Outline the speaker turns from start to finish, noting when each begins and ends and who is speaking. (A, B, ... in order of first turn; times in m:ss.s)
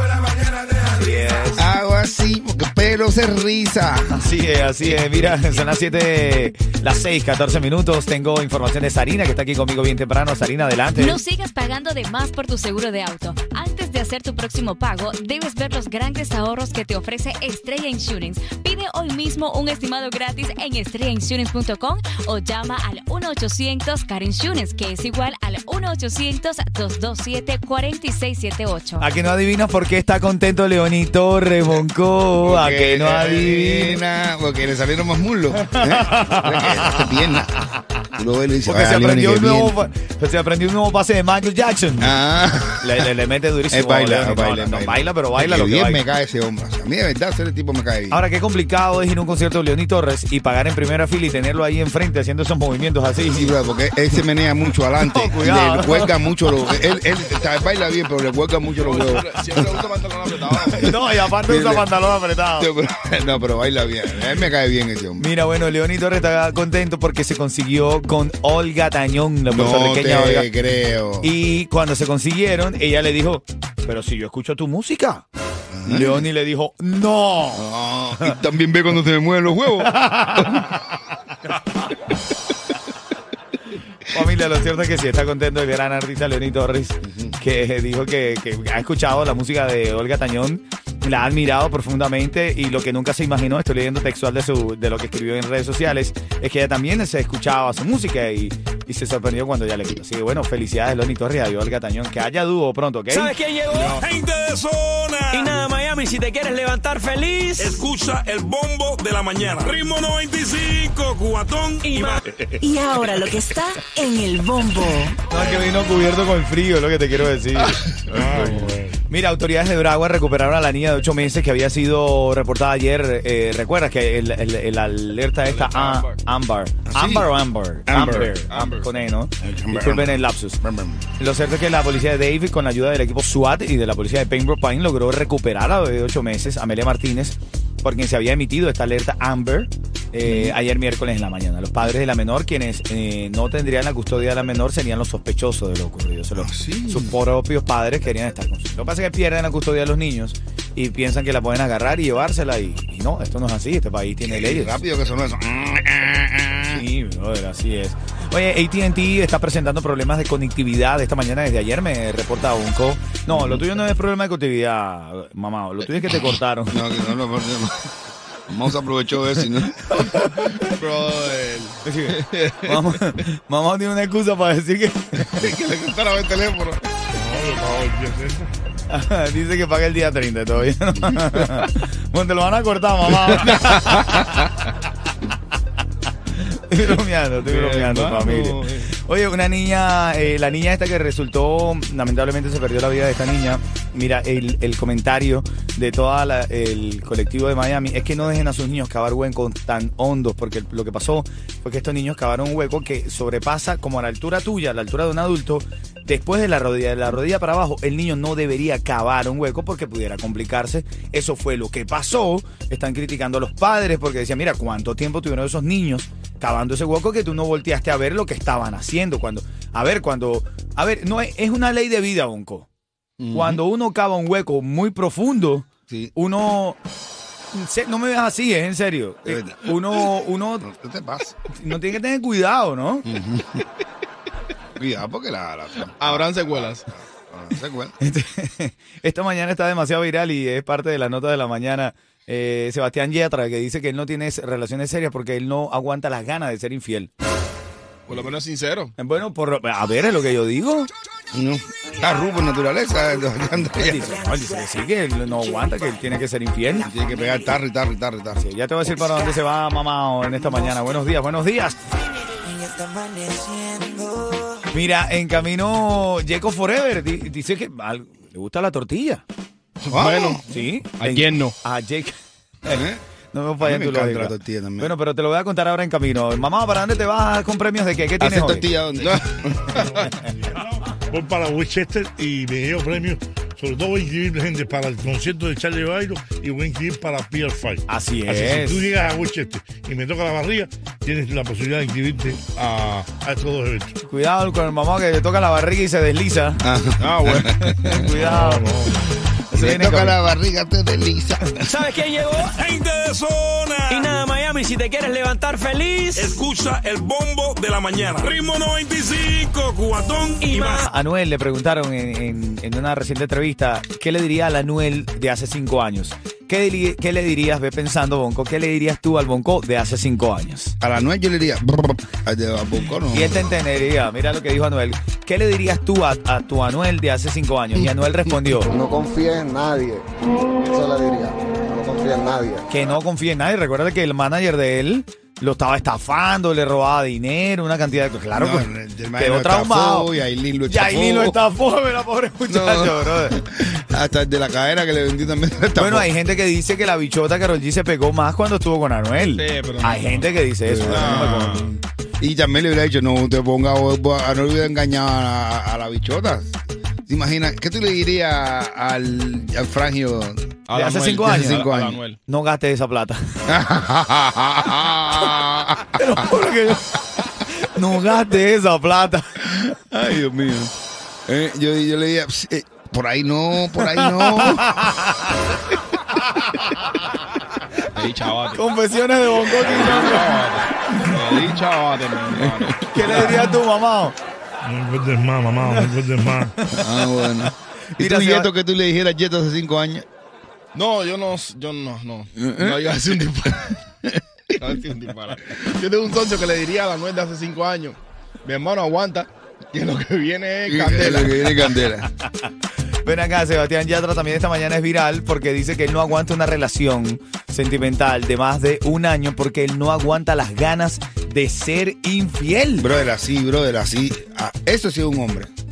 0:00.6-0:01.6 A
0:01.5-0:04.2 B
0:04.1-0:11.2 A
0:10.9-0:29.0 C
0:29.0-0:34.0 A
0:32.4-0:37.5 B
0:35.6-0:37.1 A
0:38.1-0:39.8 B
0:38.6-0:42.1 A
0:42.0-0:43.1 B
0:42.8-0:46.0 A
0:43.7-0:48.2 B
0:48.1-0:53.5 A
0:53.3-0:59.9 B
0:55.0-0:56.2 A
0:58.8-1:00.8 D
1:00.6-1:01.9 B
1:00.7-1:02.7 A
1:02.6-1:05.2 B
1:05.2-1:10.5 A
1:09.5-1:11.3 B
1:11.2-1:15.2 A
1:15.7-1:16.3 B
1:15.9-1:17.6 A
1:17.6-1:20.7 B
1:19.8-1:20.8 A
1:24.1-1:43.4 A
1:27.0-1:27.4 B
1:43.1-1:44.0 E
1:43.8-1:45.5 F
1:45.3-1:47.8 E
1:47.6-1:52.4 F
1:51.8-1:52.2 E
1:52.6-1:55.2 G
1:55.3-2:10.6 A
1:58.1-1:59.0 H
2:05.5-2:06.2 D
2:06.9-2:07.3 B
2:07.9-2:08.3 B
2:08.2-2:08.9 D
2:09.4-2:11.0 B
2:11.2-2:34.8 A
2:20.2-2:20.6 B
2:26.4-2:27.2 B
2:34.2-2:36.8 B
2:36.7-2:46.8 A
2:43.3-2:43.6 B
2:46.7-2:47.9 B
2:48.5-2:49.9 B
2:50.0-2:50.6 A
2:50.6-2:52.7 D
2:51.8-2:55.5 A
2:55.4-2:56.9 D
2:57.1-2:58.5 H
2:58.9-3:04.5 A
3:06.3-3:42.7 A
3:07.5-3:08.3 B
3:43.2-3:43.6 B
3:43.3-3:46.8 A
3:45.9-3:46.1 B
3:47.5-3:50.7 A
3:49.2-3:50.1 B
3:50.6-3:51.3 B
3:51.5-3:53.1 A
3:53.0-3:53.6 B
3:54.8-3:57.9 B
3:55.9-3:56.8 D
3:58.0-4:07.1 A
4:08.1-4:08.9 D
4:09.0-4:10.9 A
4:11.3-4:14.1 B
4:13.8-4:16.9 A
4:16.8-4:18.4 B
4:18.4-4:21.8 A
4:24.7-4:29.2 A
4:29.9-4:30.4 D
4:29.9-4:30.4 B
4:30.5-4:32.1 A
4:31.0-4:31.5 D
4:32.6-4:38.6 A
4:32.7-4:33.0 B
4:33.6-4:34.9 B
4:38.2-4:39.8 B
4:40.6-4:54.0 H
4:47.9-4:48.9 A
4:52.6-4:53.0 D
4:54.0-4:56.6 A
4:56.6-4:57.5 B
4:57.0-4:58.2 D
4:57.2-5:00.2 A
4:58.2-4:59.0 H
4:59.5-5:01.7 B
5:01.5-5:02.6 E
5:02.4-5:04.1 F
5:03.9-5:06.4 E
5:06.2-5:10.8 F
5:10.4-5:10.9 E
5:10.8-5:20.7 A
5:20.8-5:23.5 B
5:23.1-5:28.7 A
5:28.7-5:30.0 I
5:30.6-5:32.6 I
5:32.7-5:40.1 A
5:38.3-5:41.4 B
5:40.7-5:43.4 A
5:42.5-5:46.1 B
5:45.8-5:51.7 A
5:49.4-5:50.3 D
5:50.6-5:51.6 B
5:50.9-5:51.6 D
5:52.2-6:00.6 B
6:00.7-6:02.2 D
6:00.7-6:01.6 A
6:01.2-6:02.0 B
6:02.2-6:03.2 A
6:03.5-6:06.3 B
6:06.0-6:09.6 A
6:09.7-6:10.7 B
6:11.2-6:14.7 B
6:13.9-6:15.6 A
6:16.1-6:17.1 A
6:17.9-6:18.6 D
6:18.5-6:21.0 A
6:19.6-6:23.4 D
6:22.3-6:22.7 B
6:22.9-6:24.2 A
6:24.6-6:26.5 H
6:25.6-6:25.9 A
6:26.6-6:27.3 A
6:26.8-6:30.0 B
6:28.0-6:28.5 A
6:30.7-6:33.6 D
6:32.4-6:32.8 B
6:34.6-6:41.4 D
6:40.6-6:42.1 B
6:43.0-6:52.9 A
6:52.8-6:55.5 B